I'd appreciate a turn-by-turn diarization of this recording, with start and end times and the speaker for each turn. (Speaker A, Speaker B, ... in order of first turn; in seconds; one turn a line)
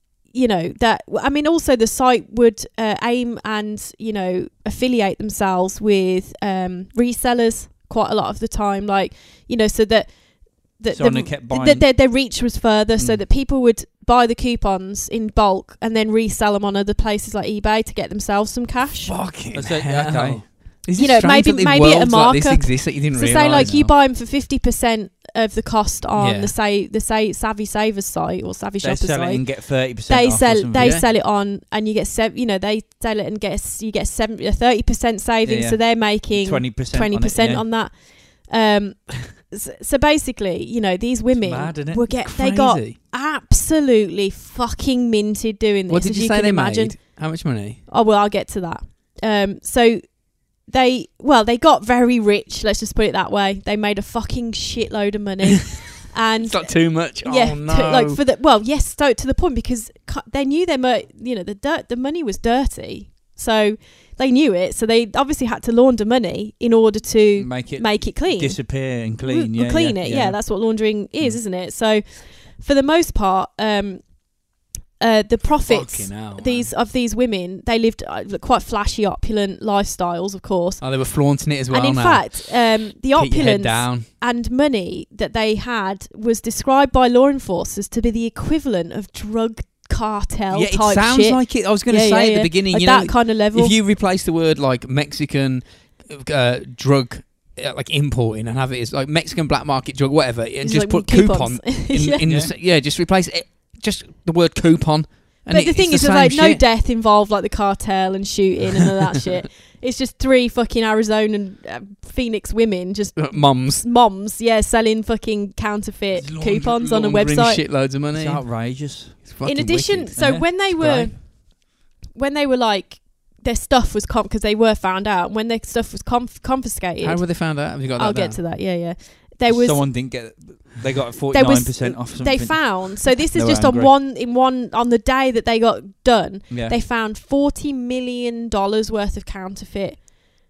Speaker A: 0.2-19.2
Speaker B: 10.9-11.9
Speaker B: 13.0-13.2
Speaker C: 19.0-23.8
Speaker B: 19.5-20.5
Speaker A: 20.9-47.3
Speaker B: 23.5-23.9
Speaker C: 26.1-26.6
Speaker B: 28.8-31.0
Speaker C: 30.8-31.1
Speaker B: 35.5-37.6
Speaker B: 41.4-42.1
Speaker C: 42.1-43.0
Speaker C: 45.9-47.8
Speaker A: 47.9-74.2
Speaker C: 56.4-58.2
Speaker B: 67.4-70.4
Speaker A: 75.0-93.8
Speaker C: 75.7-76.7
Speaker C: 80.8-84.1
Speaker C: 90.5-106.7
Speaker A: 100.6-102.3
Speaker B: 102.2-102.5
Speaker A: 105.5-117.7
Speaker C: 113.2-113.9
Speaker C: 116.2-118.5
Speaker B: 118.1-119.4
Speaker C: 119.2-120.2
Speaker A: 119.4-129.9
Speaker B: 120.2-121.2
Speaker C: 127.0-128.4
Speaker B: 129.5-133.9
Speaker A: 131.3-140.2
Speaker B: 136.5-136.8